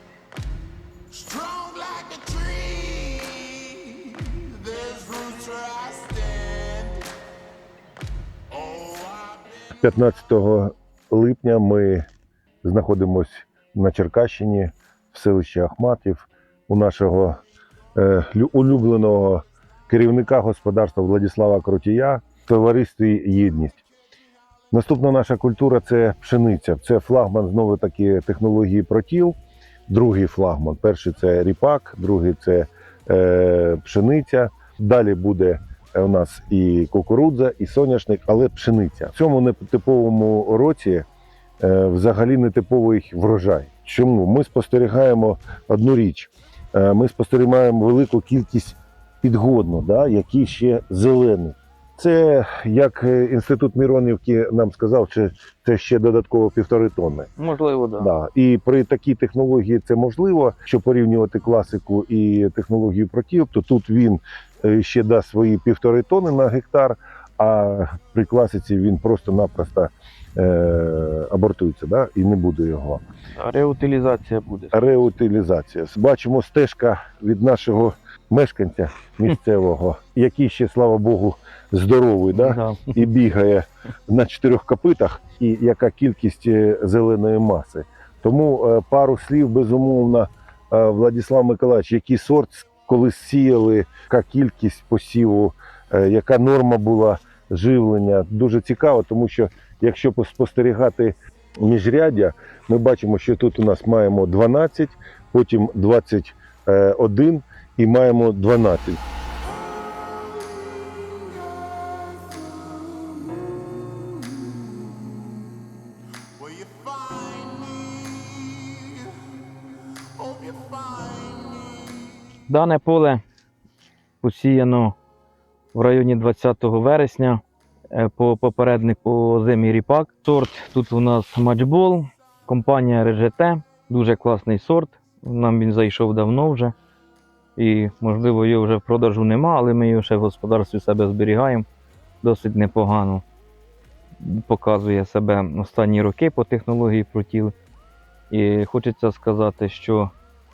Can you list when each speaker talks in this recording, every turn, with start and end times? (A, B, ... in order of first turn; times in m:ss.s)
0:01.1-0:07.1 A
0:08.5-0:09.6 A
0:09.8-0:12.1 B
0:12.6-0:17.4 B
0:18.0-0:23.8 B
0:24.7-0:29.4 B
0:29.9-0:41.1 B
0:41.6-0:57.3 B
0:57.4-0:58.1 C
0:58.0-1:13.0 B
1:13.4-1:14.8 C
1:14.7-1:49.0 B
1:22.3-1:23.0 C
1:56.4-1:59.3 A
2:00.2-2:02.0 A
2:02.5-2:03.2 C
2:04.2-2:05.0 C
2:05.7-2:07.4 C
2:07.9-2:16.7 C
2:17.6-2:21.6 C
2:22.2-2:23.2 C
2:24.2-2:27.5 C
2:28.3-2:30.1 C